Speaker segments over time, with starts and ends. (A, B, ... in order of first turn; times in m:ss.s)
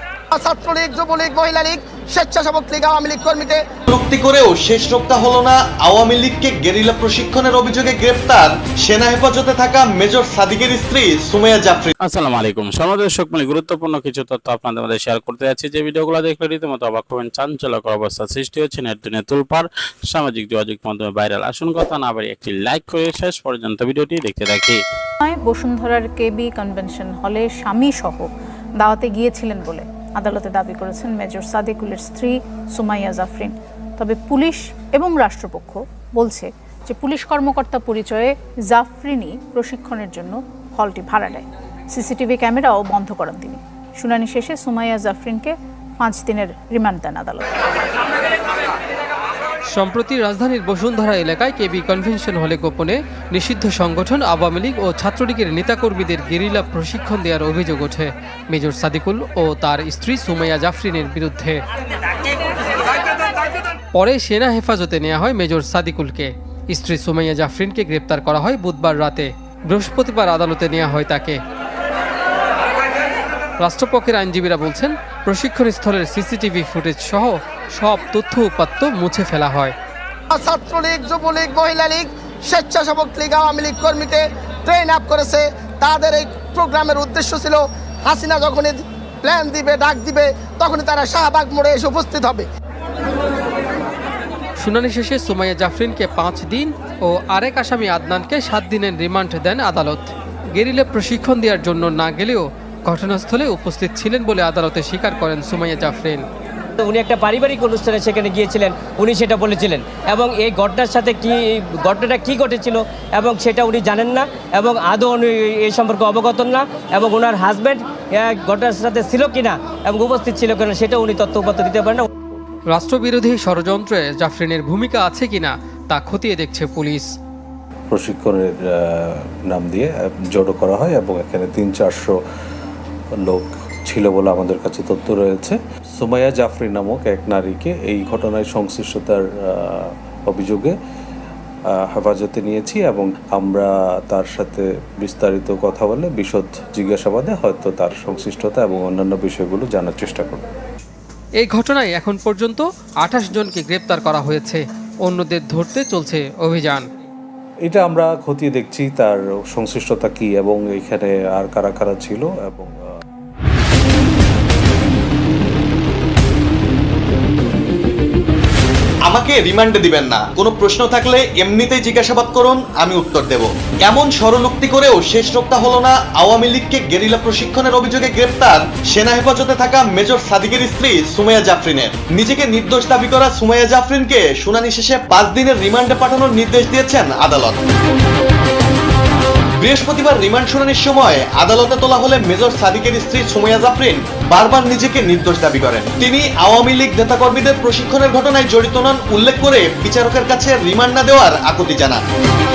0:00.3-0:03.7 A
0:03.9-0:11.9 B
0:12.0-0:24.8 C
0:25.2-0:47.5 D
0:49.7-1:01.6 E
1:03.9-1:11.4 E
1:13.6-1:19.7 E
1:20.3-1:32.5 A
1:34.6-1:46.2 E
1:46.8-2:02.0 F
2:02.1-2:02.4 G
2:02.7-2:07.1 E
2:07.9-2:12.2 G
2:13.2-2:20.8 G
2:21.7-2:30.5 G
2:31.4-2:36.9 E
2:37.6-2:42.8 G
2:49.0-3:07.6 B
3:09.6-3:22.0 B